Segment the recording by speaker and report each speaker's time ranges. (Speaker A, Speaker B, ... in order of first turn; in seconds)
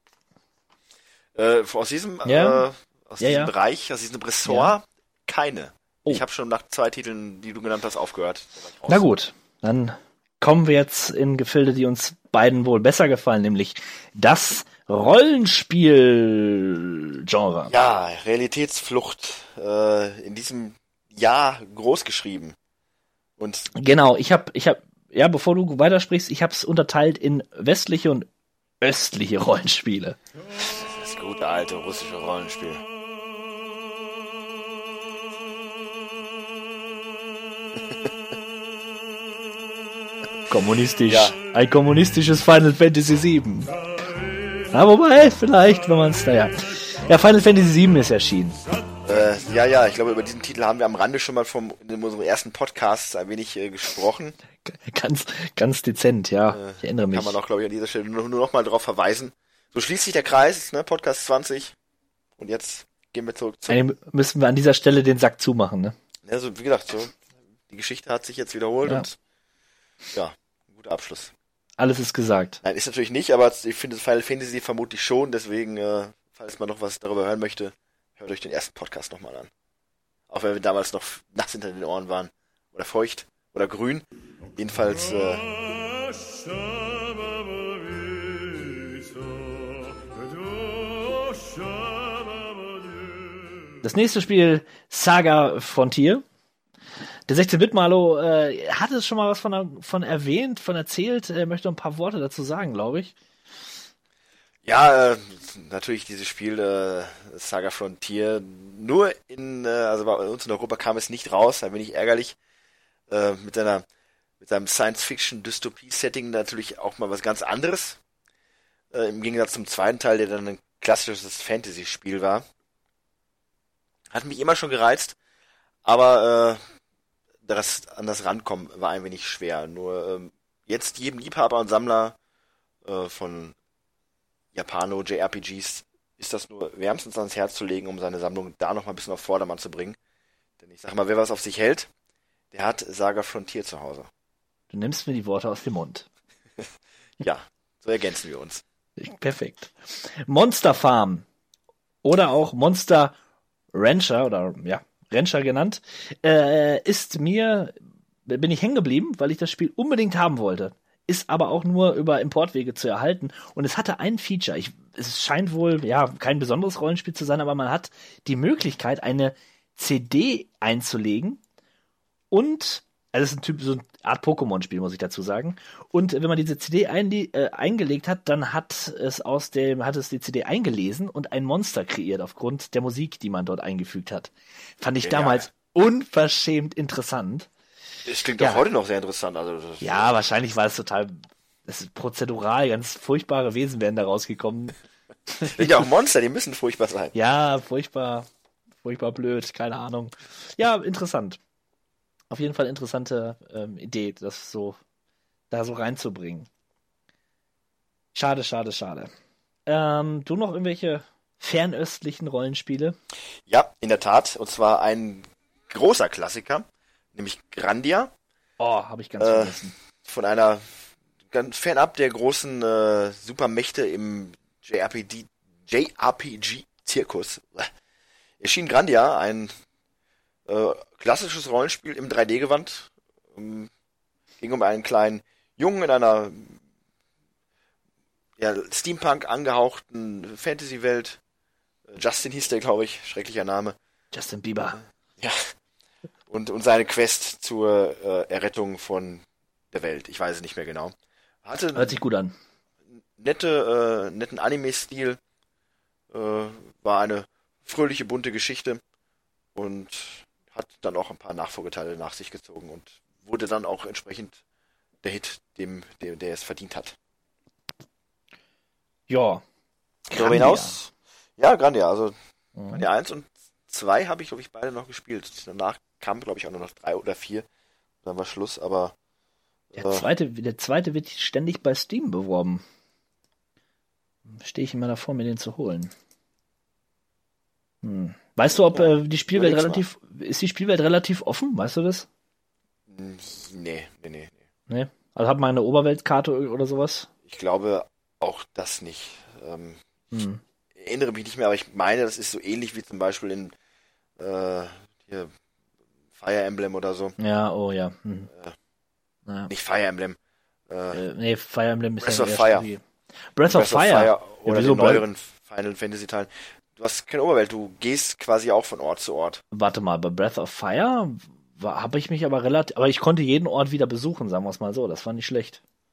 Speaker A: 1.3-9.1, 17.7-22.6, 23.4-23.7, 30.6-32.8, 37.8-38.1, 41.0-41.4, 49.0-54.4, 56.5-61.7, 62.4-63.8, 66.2-69.2, 70.1-71.3, 72.6-79.5, 80.3-85.5, 104.6-112.4, 113.1-113.8, 114.4-118.0, 118.9-122.5, 124.1-125.2, 125.8-126.6, 127.4-132.2, 132.8-133.6, 134.5-140.0, 140.6-141.9, 142.5-144.1, 147.2-148.6, 185.0-185.5, 188.0-190.1, 195.5-197.1, 213.4-218.1, 219.2-227.7, 228.4-229.6, 230.4-233.7, 234.4-236.6, 238.4-241.2, 241.9-243.8, 245.2-245.5, 246.3-252.0, 253.1-255.2, 256.1-258.8, 259.5-264.4, 265.0-266.9, 270.1-272.1, 272.7-277.5, 278.0-278.9, 279.7-280.1, 288.7-289.9, 292.9-294.4, 297.2-299.8, 300.7-303.5, 304.2-305.3, 306.1-307.1, 308.3-308.6, 309.5-310.2, 310.7-311.0, 312.0-312.7, 313.4-319.4
Speaker B: 2.2-2.6, 3.2-3.5, 4.4-4.7, 8.9-17.7, 23.8-28.3, 28.8-30.2, 40.5-43.8, 44.7-48.6, 54.6-57.4, 63.7-66.0, 71.8-72.6, 93.8-96.2, 97.3-103.1, 144.7-146.1, 149.0-151.2, 152.0-153.1, 153.7-157.7, 158.2-171.4, 172.3-187.5, 189.8-194.7, 195.4-195.8, 197.1-198.3, 198.8-201.4, 202.3-204.8, 205.5-206.5, 208.1-209.1, 209.7-213.0, 218.6-219.8, 244.1-244.8, 251.7-252.3, 269.1-269.4, 270.1-270.8, 272.6-272.8, 279.8-282.6, 284.3-285.9, 287.8-292.1, 294.7-297.1, 300.1-300.4, 307.2-308.3, 310.9-312.8, 313.3-315.0, 319.5-325.6